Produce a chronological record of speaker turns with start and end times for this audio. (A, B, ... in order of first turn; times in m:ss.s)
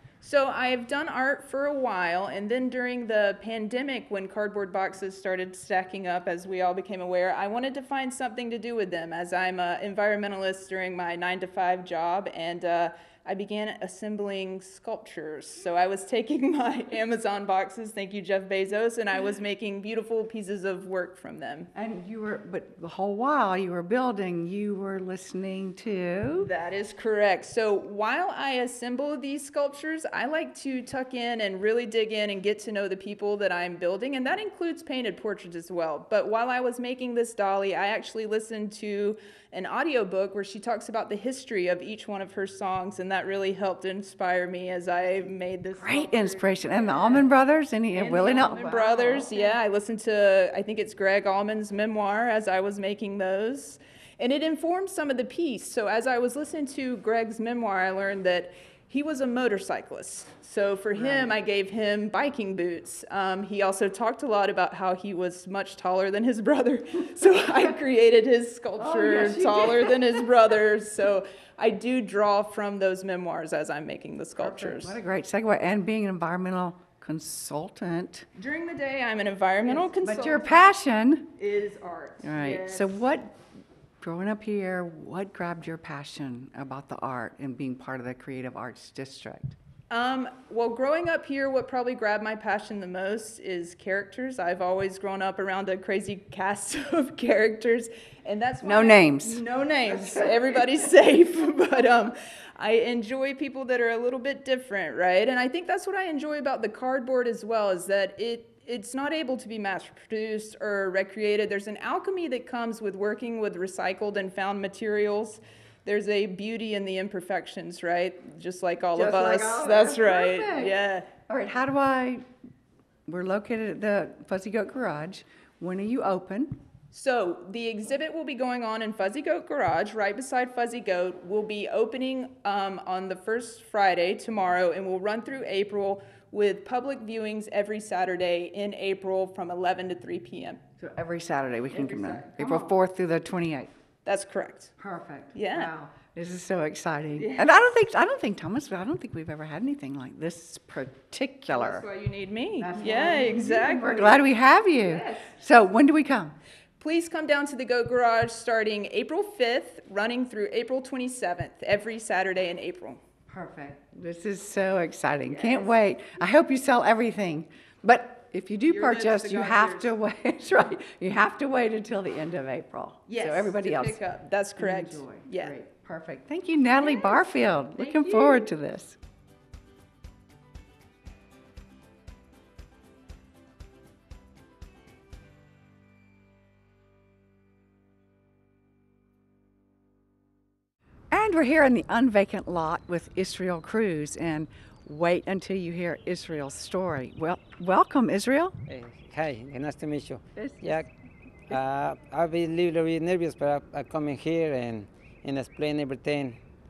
0:00.2-0:21.7 A
0:21.7-0:26.5 B
0:26.3-0:47.3 A
0:45.8-0:49.5 B
0:47.9-1:15.0 A
1:00.9-1:01.3 B
1:08.8-1:10.3 B
1:14.4-1:18.3 B
1:18.4-1:20.7 A
1:19.8-1:21.3 B
1:21.4-1:23.0 A
1:22.2-1:23.4 B
1:24.0-1:29.6 B
1:29.9-2:01.1 A
1:38.6-1:40.3 B
1:58.9-2:00.7 B
2:01.3-2:02.2 B
2:03.1-2:06.6 B
2:06.9-2:20.6 A
2:20.8-2:23.7 B
2:21.7-2:22.7 A
2:24.0-2:24.7 A
2:24.8-2:31.9 B
2:25.3-2:25.7 A
2:27.2-2:27.6 A
2:31.5-2:34.2 A
2:32.6-2:36.4 B
2:34.8-2:35.3 A
2:36.8-2:43.0 A
2:43.3-2:54.0 B
2:45.3-2:45.7 A
2:48.7-2:49.9 A
2:53.1-2:55.5 A
2:54.6-2:59.0 B
2:56.7-2:58.5 A
3:11.1-3:18.6 B
3:18.7-3:20.9 C
3:20.4-3:20.9 B
3:21.5-3:26.4 C